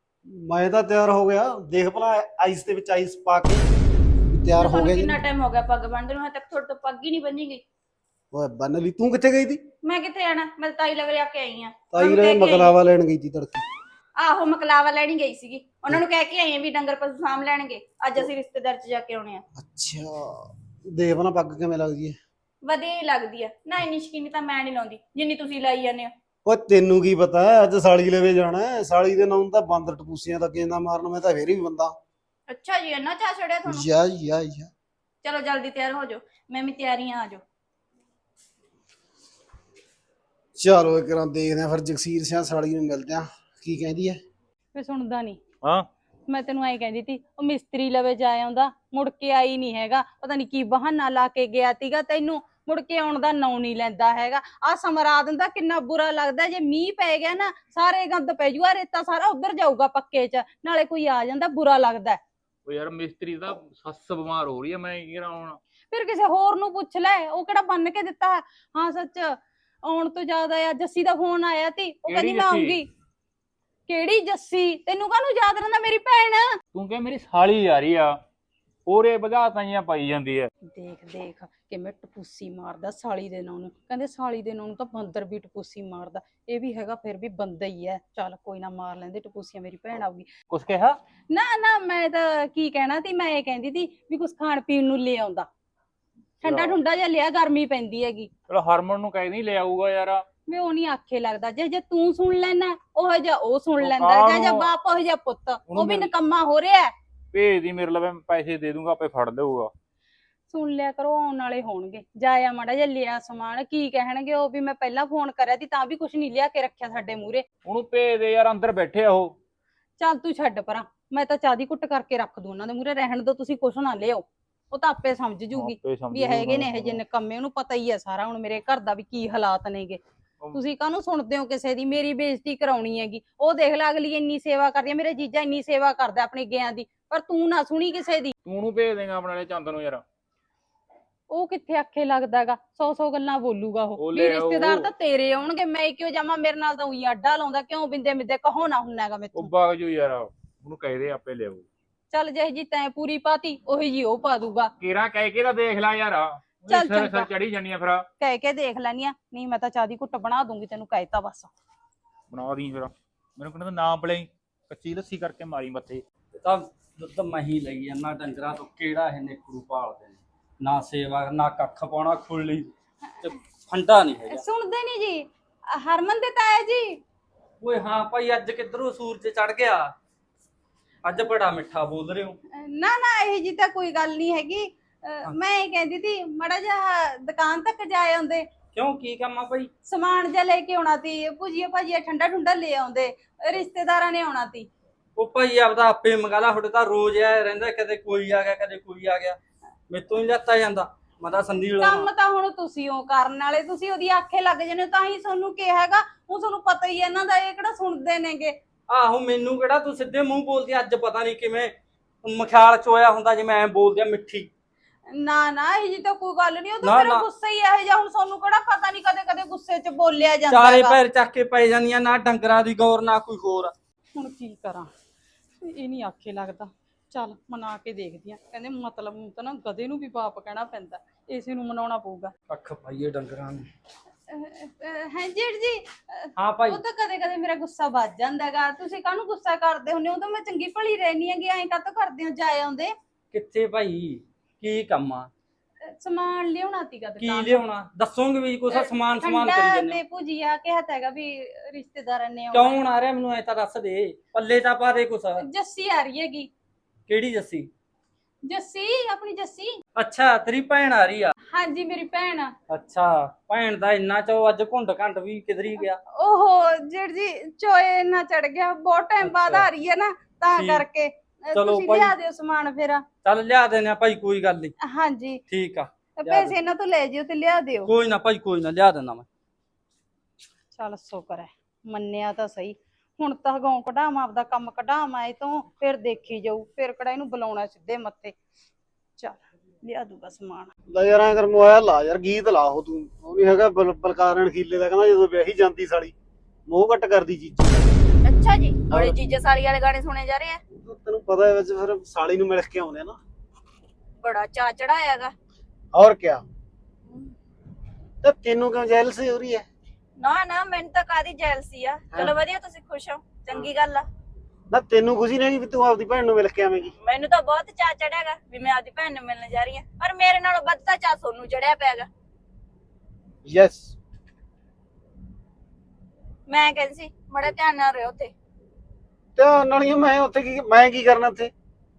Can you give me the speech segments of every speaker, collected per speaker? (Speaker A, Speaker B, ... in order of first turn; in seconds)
Speaker A: 0.3-3.6, 4.3-5.2, 8.3-9.6, 11.9-13.6, 19.6-22.1, 26.4-31.9, 33.6-34.7, 40.6-44.2, 290.9-296.1, 296.7-297.9, 298.9-299.2, 300.8-303.2, 305.9-306.4, 308.2-309.6, 314.7-316.9, 323.4-323.9, 329.4-331.5
Speaker B: 4.6-7.6, 9.8-12.7, 14.2-19.4, 22.6-26.1, 32.5-33.9, 35.2-37.4, 298.2-300.6, 304.2-305.3, 310.2-314.1, 317.0-322.1, 326.5-328.3
Speaker C: 44.7-45.4, 46.3-62.2, 65.9-72.9, 73.9-76.5, 80.6-90.3, 91.3-95.5, 96.4-98.3, 100.5-106.9, 110.5-117.4, 120.0-130.0, 130.5-138.3, 141.3-149.5, 152.1-154.7, 156.7-157.3, 158.2-161.5, 174.3-177.0, 182.5-188.4, 189.8-194.7, 201.8-208.5, 215.1-221.0, 224.2-224.9, 225.6-232.3, 234.3-242.9, 245.9-247.7, 248.7-252.8, 255.4-256.5, 258.4-259.7, 261.5-262.5, 265.8-273.0, 274.8-275.4, 276.2-277.9, 280.7-288.3, 289.2-290.7
Speaker D: 62.6-65.6, 72.0-72.8, 76.7-78.1, 78.8-80.5, 90.5-91.0, 96.4-96.8, 98.5-100.2, 103.8-104.7, 105.7-106.1, 107.3-109.7, 117.6-119.3, 125.5-127.0, 138.4-140.0, 144.0-144.9, 149.3-151.7, 154.8-158.1, 162.3-166.0
Speaker E: 166.3-172.7, 173.2-174.4, 177.6-179.9, 181.0-182.4, 188.7-189.7, 195.2-199.4, 199.9-202.1, 208.9-211.7, 212.2-214.5, 216.8-217.2, 220.5-223.7, 232.5-233.7, 236.4-236.8, 243.3-245.3, 247.2-250.0, 252.5-255.4, 257.1-257.7, 260.0-261.3, 262.7-266.0, 269.2-269.7, 270.5-270.8, 271.5-272.1, 273.2-274.7, 275.5-276.6, 277.9-279.2